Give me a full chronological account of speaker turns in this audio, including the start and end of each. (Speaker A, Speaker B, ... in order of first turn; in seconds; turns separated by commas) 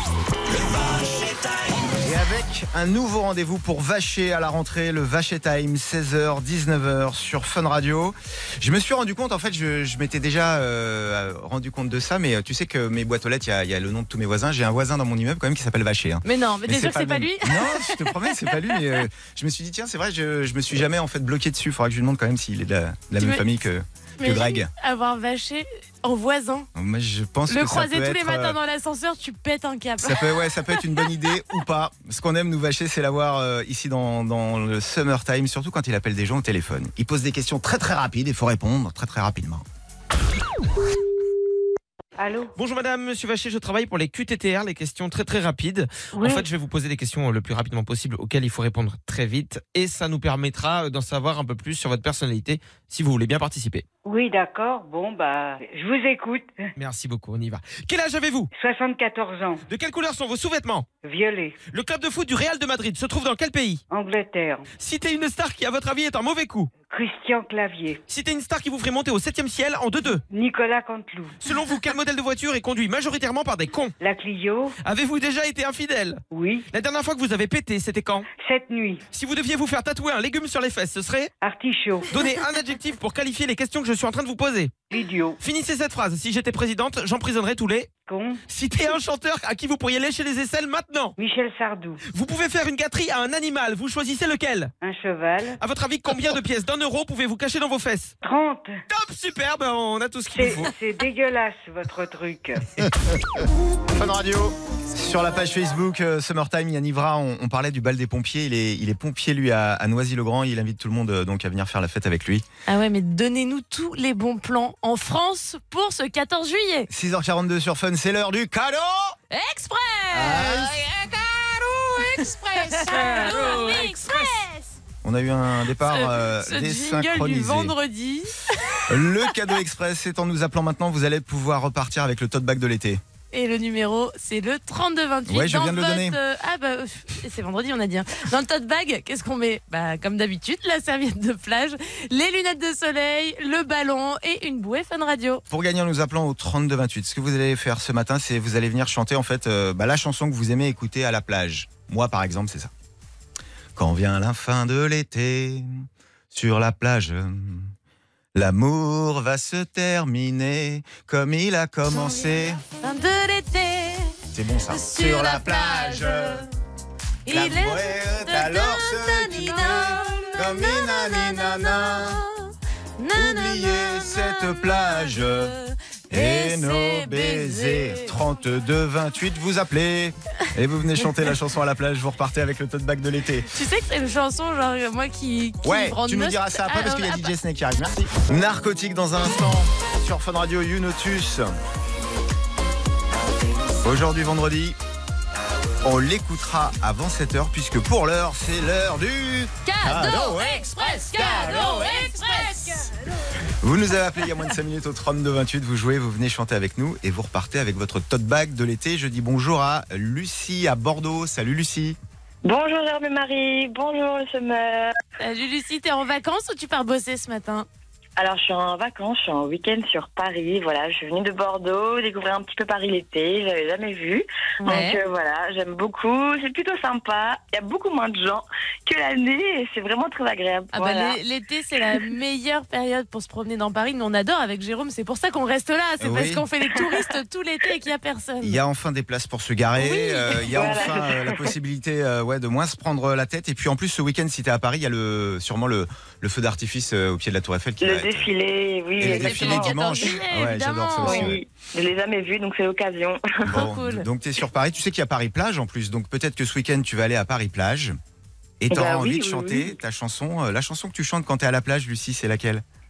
Speaker A: 2.0-24.7, Speaker B: 16.2-18.8, Speaker B: 24.2-26.7, Speaker A: 26.8-28.6, Speaker B: 27.5-31.0, Speaker A: 30.0-39.6, Speaker C: 42.2-42.5, Speaker D: 42.6-53.9, Speaker C: 46.1-46.5, Speaker C: 54.0-56.7, Speaker D: 56.8-58.5, Speaker C: 58.5-59.6, Speaker D: 59.7-60.9, Speaker C: 61.0-61.6, Speaker D: 61.7-63.8, Speaker C: 63.9-64.7, Speaker D: 64.8-66.7, Speaker C: 66.9-68.0, Speaker D: 68.1-70.2, Speaker C: 70.3-71.4, Speaker D: 71.4-74.0, Speaker C: 74.0-74.8, Speaker D: 74.8-78.3, Speaker C: 76.3-76.7, Speaker C: 78.4-79.0, Speaker D: 79.1-81.3, Speaker C: 81.4-82.1, Speaker D: 82.1-84.7, Speaker C: 84.9-85.4, Speaker D: 85.4-87.9, Speaker C: 88.1-88.4, Speaker D: 88.5-91.2, Speaker C: 91.2-92.0, Speaker D: 92.1-94.7, Speaker C: 94.8-95.6, Speaker D: 95.6-98.2, Speaker C: 98.2-98.8, Speaker D: 98.9-100.7, Speaker C: 100.3-102.7, Speaker A: 103.9-112.5, Speaker B: 112.7-116.9, Speaker A: 116.9-119.2, Speaker B: 119.3-120.8, Speaker A: 120.1-120.7, Speaker B: 122.1-124.6, Speaker A: 125.0-127.7, Speaker B: 125.8-128.9, Speaker A: 128.9-133.0, Speaker B: 133.3-145.4, Speaker A: 135.3-136.2, Speaker A: 145.5-152.7, Speaker A: 153.8-157.7, Speaker A: 158.3-162.6, Speaker B: 162.8-164.2, Speaker A: 164.3-166.5, Speaker B: 164.7-166.5, Speaker B: 167.3-178.2, Speaker A: 167.3-172.2, Speaker A: 173.2-175.5, Speaker A: 176.1-183.5, Speaker B: 183.5-187.3, Speaker A: 185.6-191.6, Speaker A: 193.8-194.8, Speaker A: 195.8-201.9, Speaker B: 199.7-202.9, Speaker A: 203.6-212.0, Speaker E: 212.4-215.0, Speaker B: 215.2-217.7, Speaker E: 218.2-231.2, Speaker B: 224.7-225.0, Speaker B: 230.7-238.6, Speaker A: 236.0-236.4, Speaker A: 238.4-248.3, Speaker B: 239.8-240.7, Speaker E: 240.5-241.5, Speaker E: 247.8-250.1, Speaker A: 249.0-251.4, Speaker B: 249.0-251.3, Speaker E: 251.0-253.6, Speaker A: 253.4-258.0, Speaker B: 253.5-254.1, Speaker A: 258.6-262.6, Speaker E: 258.7-259.7